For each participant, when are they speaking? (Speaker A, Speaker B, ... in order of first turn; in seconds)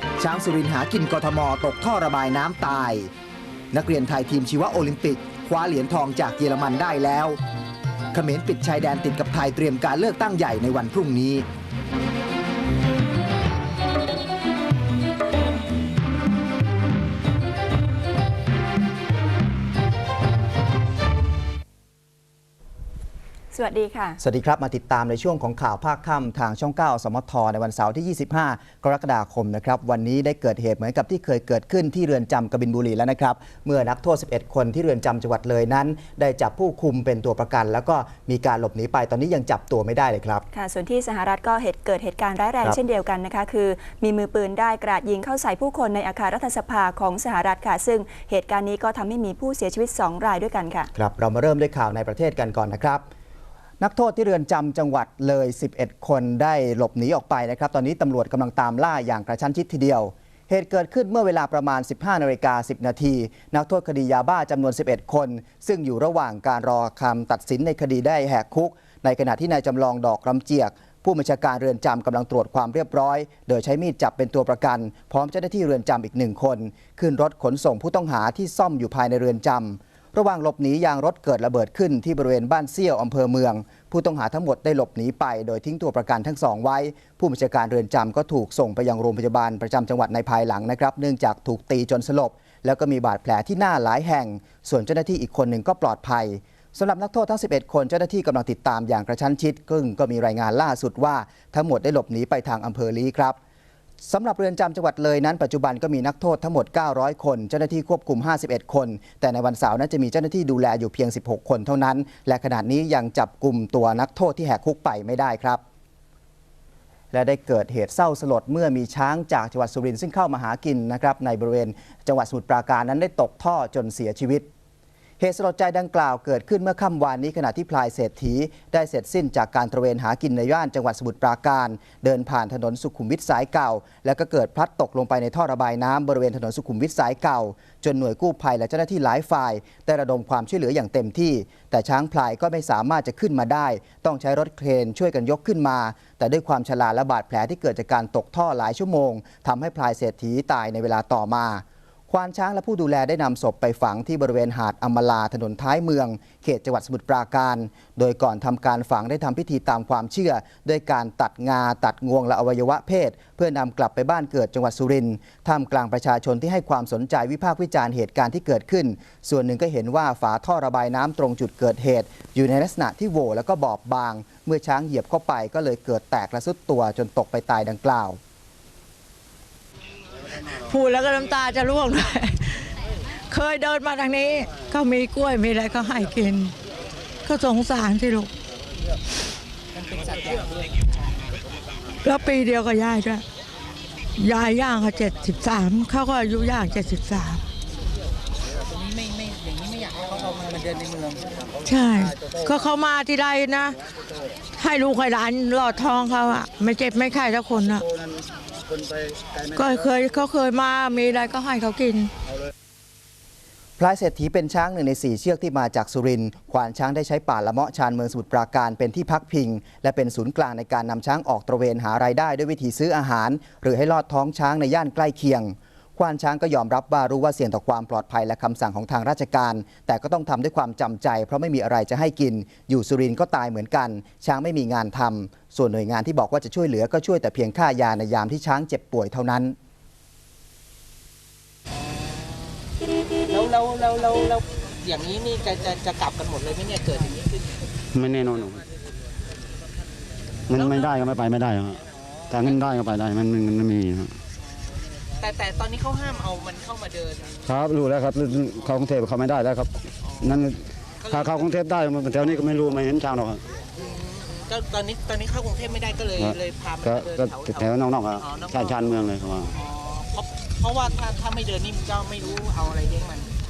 Speaker A: 0.2-3.0, 3.7-7.3, 8.1-11.4, 24.2-40.5, 50.9-53.0, 53.8-103.4, 104.0-115.6, 117.1-124.5, 125.2-178.2, 213.8-239.5
Speaker B: 23.5-24.2, 40.5-50.9
Speaker C: 180.7-182.6, 183.3-186.5, 187.2-188.3, 192.0-193.2, 194.2-197.4, 201.6-203.8, 204.6-207.8, 209.5-212.1
Speaker D: 189.7-190.9, 198.7-201.4, 243.3-247.6, 250.5-251.0, 255.2-257.5, 260.0-260.4, 261.0-261.5, 263.8-269.0, 269.5-273.3
Speaker E: 247.9-248.6, 250.5-254.1, 257.5-263.4, 266.2-269.5